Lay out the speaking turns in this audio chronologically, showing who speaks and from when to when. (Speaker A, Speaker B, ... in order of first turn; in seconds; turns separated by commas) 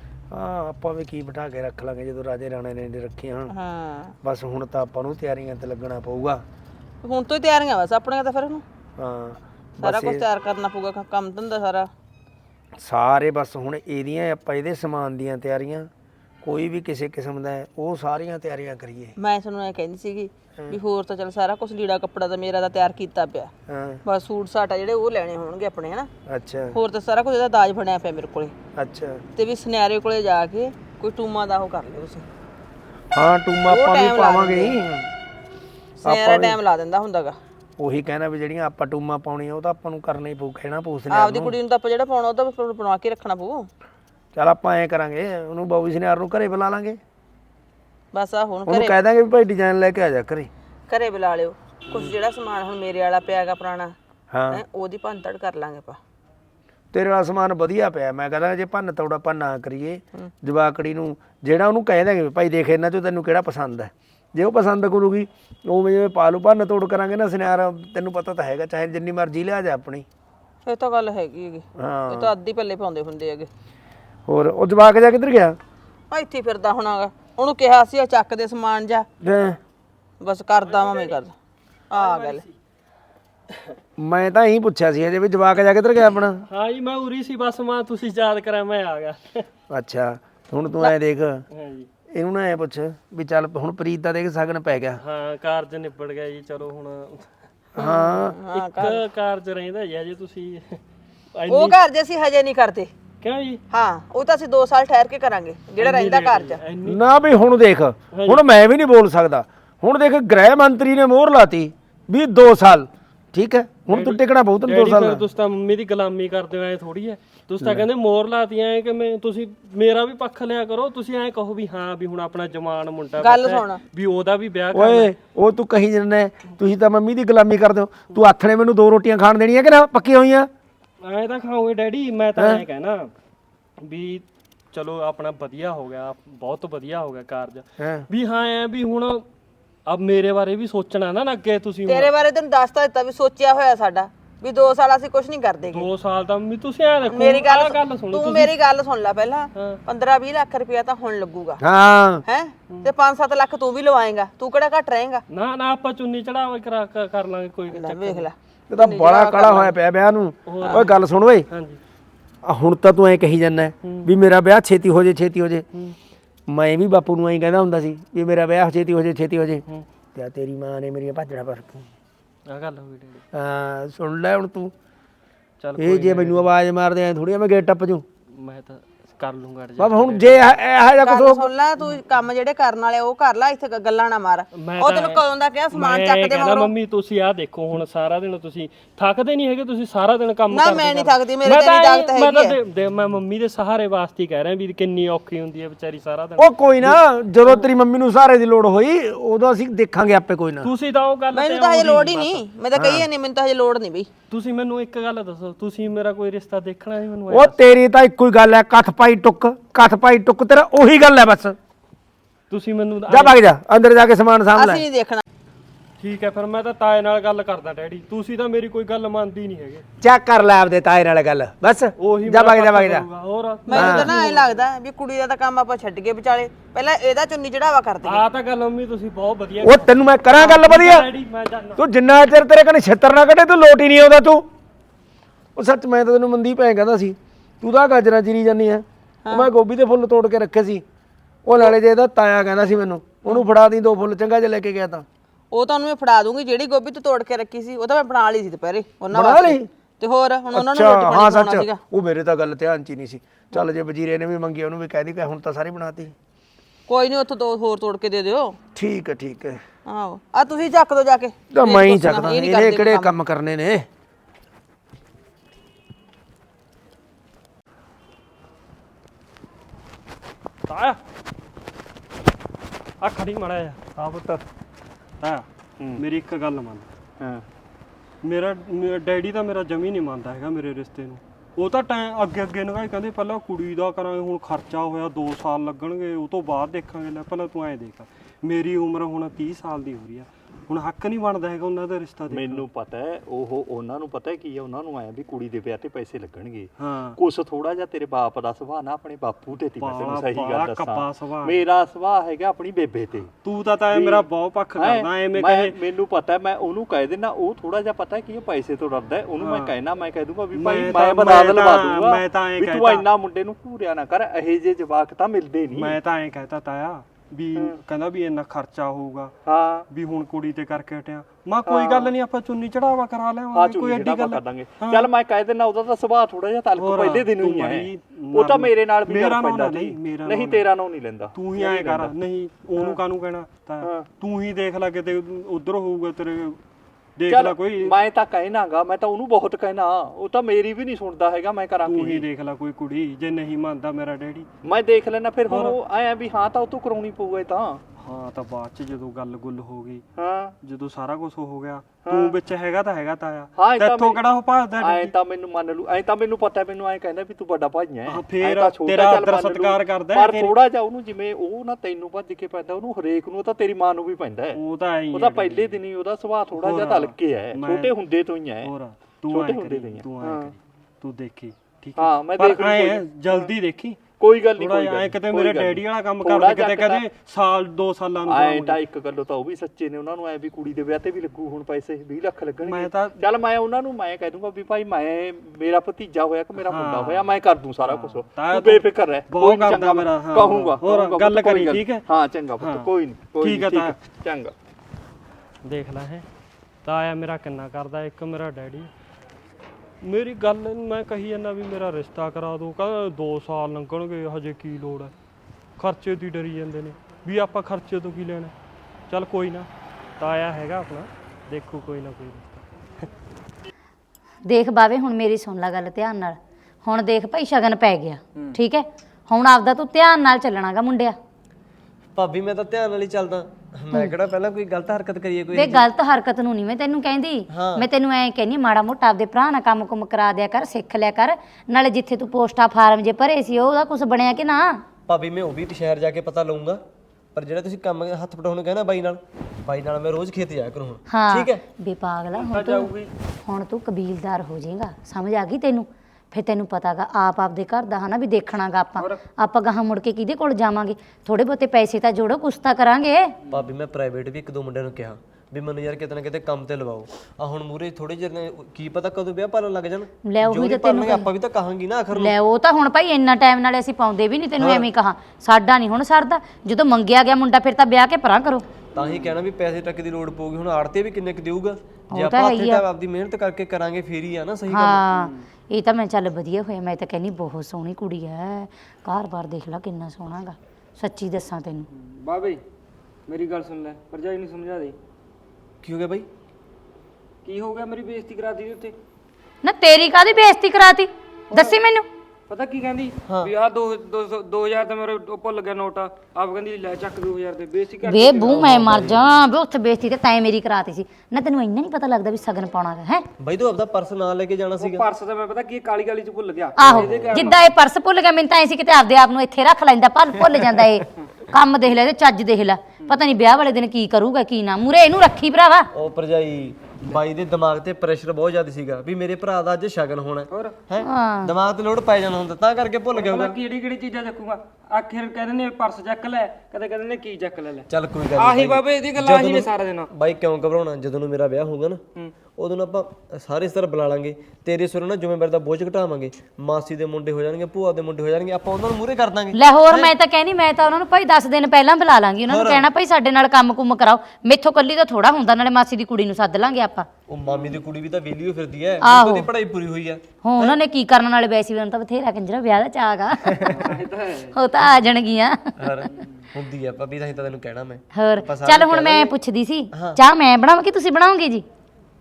Speaker A: 0.3-3.5, Speaker B: 3.5-4.2, Speaker A: 4.2-6.4, Speaker B: 7.0-8.6, Speaker A: 9.0-10.2, Speaker B: 9.8-11.9, Speaker A: 12.8-15.9, Speaker A: 16.4-19.2, Speaker B: 19.2-23.5, Speaker A: 23.7-24.0, Speaker B: 24.1-26.1, Speaker A: 26.3-26.8, Speaker B: 26.7-28.5, Speaker A: 28.8-29.2, Speaker B: 29.4-32.3, Speaker A: 33.1-35.1, Speaker B: 33.7-34.7, Speaker B: 36.0-37.4, Speaker A: 36.0-36.6, Speaker A: 37.8-41.5, Speaker B: 41.1-43.7, Speaker A: 44.3-47.0, Speaker B: 48.1-49.0, Speaker A: 48.7-50.5, Speaker B: 50.9-53.9, Speaker A: 54.3-54.6, Speaker B: 54.5-56.0, Speaker A: 56.9-70.1, Speaker B: 70.7-73.5, Speaker A: 71.8-72.3, Speaker A: 74.3-75.6, Speaker B: 76.1-79.1, Speaker A: 79.2-79.6, Speaker B: 80.2-81.3, Speaker C: 80.7-81.2, Speaker B: 81.9-82.4, Speaker C: 81.9-82.5, Speaker A: 84.0-86.5, Speaker C: 86.5-89.5, Speaker A: 89.7-91.5, Speaker C: 91.5-91.9, Speaker A: 92.1-95.0, Speaker C: 95.0-97.3, Speaker A: 97.8-98.4, Speaker B: 97.8-99.0, Speaker C: 98.5-100.8, Speaker C: 101.3-101.8, Speaker B: 101.5-102.9, Speaker C: 103.2-103.6, Speaker B: 103.7-106.6, Speaker C: 105.8-107.1, Speaker A: 106.8-115.2, Speaker C: 108.1-108.4, Speaker C: 113.9-125.1, Speaker B: 123.2-123.8, Speaker A: 124.7-130.5, Speaker C: 131.0-133.1, Speaker A: 132.4-132.6, Speaker C: 133.8-139.2, Speaker A: 137.8-138.1, Speaker C: 139.9-142.1, Speaker B: 141.9-145.9, Speaker C: 145.7-148.5, Speaker B: 147.1-151.6, Speaker A: 151.6-152.2, Speaker B: 152.3-155.2, Speaker C: 155.3-158.3, Speaker B: 157.7-159.7, Speaker A: 158.7-161.5, Speaker C: 160.5-160.9, Speaker C: 161.5-161.8, Speaker A: 162.4-165.7, Speaker C: 163.8-164.1, Speaker A: 166.5-169.6, Speaker A: 170.2-171.9, Speaker C: 172.5-173.2, Speaker A: 173.3-174.7, Speaker C: 175.6-176.4, Speaker A: 175.8-178.1, Speaker C: 178.3-180.5, Speaker A: 179.8-181.5, Speaker B: 181.0-186.7, Speaker C: 184.6-197.0, Speaker B: 190.5-192.6, Speaker A: 196.4-200.7, Speaker C: 200.6-202.4, Speaker B: 201.3-204.1, Speaker A: 202.8-203.1, Speaker C: 204.3-207.6, Speaker A: 207.3-211.6, Speaker C: 212.5-213.4, Speaker A: 213.1-214.8, Speaker B: 214.6-215.2, Speaker C: 216.0-219.8, Speaker A: 220.0-223.1, Speaker C: 222.0-224.5, Speaker B: 223.7-228.2, Speaker A: 223.7-224.1, Speaker C: 228.1-231.8, Speaker A: 229.6-231.1, Speaker A: 231.8-234.5, Speaker A: 235.6-240.8, Speaker A: 241.4-245.1, Speaker B: 245.5-251.8, Speaker A: 249.1-249.7, Speaker A: 250.5-256.1, Speaker B: 256.9-258.6, Speaker A: 258.8-259.6, Speaker B: 259.9-263.1, Speaker A: 261.5-263.9, Speaker C: 270.7-271.0, Speaker C: 273.0-273.8, Speaker D: 274.0-274.4, Speaker C: 275.2-276.9, Speaker D: 277.2-277.4, Speaker C: 278.2-292.7, Speaker D: 292.3-303.3, Speaker C: 296.8-297.2, Speaker C: 299.8-301.6, Speaker C: 303.4-305.8, Speaker D: 303.9-316.0, Speaker C: 309.4-309.7, Speaker C: 310.5-313.1, Speaker C: 315.7-319.4, Speaker D: 319.5-319.9, Speaker C: 319.9-325.1, Speaker D: 321.7-322.1, Speaker D: 323.5-332.1, Speaker C: 326.8-330.6, Speaker C: 331.4-336.6, Speaker D: 333.8-334.1, Speaker C: 337.2-337.9, Speaker D: 337.3-342.3, Speaker C: 341.9-344.5, Speaker D: 344.6-347.8, Speaker C: 345.5-345.8, Speaker C: 348.0-350.1, Speaker D: 350.2-350.6, Speaker C: 350.6-355.1, Speaker D: 352.0-352.4, Speaker D: 353.6-354.2, Speaker D: 354.8-364.6, Speaker C: 358.1-360.5, Speaker C: 364.6-365.8, Speaker D: 365.1-368.7, Speaker C: 366.6-368.0, Speaker C: 368.6-378.8, Speaker D: 369.3-370.5, Speaker D: 372.0-373.5, Speaker D: 374.2-377.0, Speaker D: 378.2-394.5, Speaker C: 382.6-383.2, Speaker C: 386.6-392.1, Speaker C: 392.6-392.9, Speaker C: 393.4-394.0, Speaker C: 395.6-396.3, Speaker C: 396.9-398.9, Speaker C: 400.0-405.1, Speaker C: 405.8-408.5, Speaker C: 409.1-409.7, Speaker C: 410.2-412.4, Speaker E: 414.5-421.2, Speaker F: 422.1-425.9, Speaker E: 425.5-434.8, Speaker F: 427.5-427.9, Speaker F: 435.1-436.8, Speaker F: 437.4-441.6, Speaker E: 441.1-442.9, Speaker G: 442.3-443.1, Speaker E: 443.4-453.4, Speaker G: 449.0-449.2, Speaker F: 453.5-462.4, Speaker E: 460.3-461.3, Speaker E: 462.1-468.7, Speaker F: 464.6-464.9, Speaker F: 468.9-475.0, Speaker E: 472.1-472.8, Speaker E: 474.7-481.9, Speaker G: 475.1-475.5, Speaker G: 481.9-482.6, Speaker G: 483.3-485.0, Speaker F: 485.8-486.3, Speaker G: 487.4-488.9, Speaker E: 489.6-492.1, Speaker G: 491.5-491.8, Speaker G: 492.5-499.1, Speaker F: 493.3-493.5, Speaker E: 498.0-503.3, Speaker F: 498.5-499.2, Speaker F: 503.4-505.1, Speaker G: 504.8-507.6, Speaker E: 506.8-515.9, Speaker F: 506.8-507.6, Speaker F: 515.9-523.6, Speaker E: 521.0-521.5, Speaker G: 523.1-530.1, Speaker F: 527.9-532.0, Speaker F: 532.5-540.1, Speaker E: 539.5-547.1, Speaker F: 542.5-542.9, Speaker F: 547.3-550.8, Speaker E: 549.0-549.5, Speaker E: 550.4-553.8, Speaker F: 553.5-554.0, Speaker G: 553.7-554.5, Speaker E: 554.5-555.7, Speaker F: 555.8-559.3, Speaker G: 556.2-556.4, Speaker E: 558.1-561.7, Speaker F: 559.9-560.2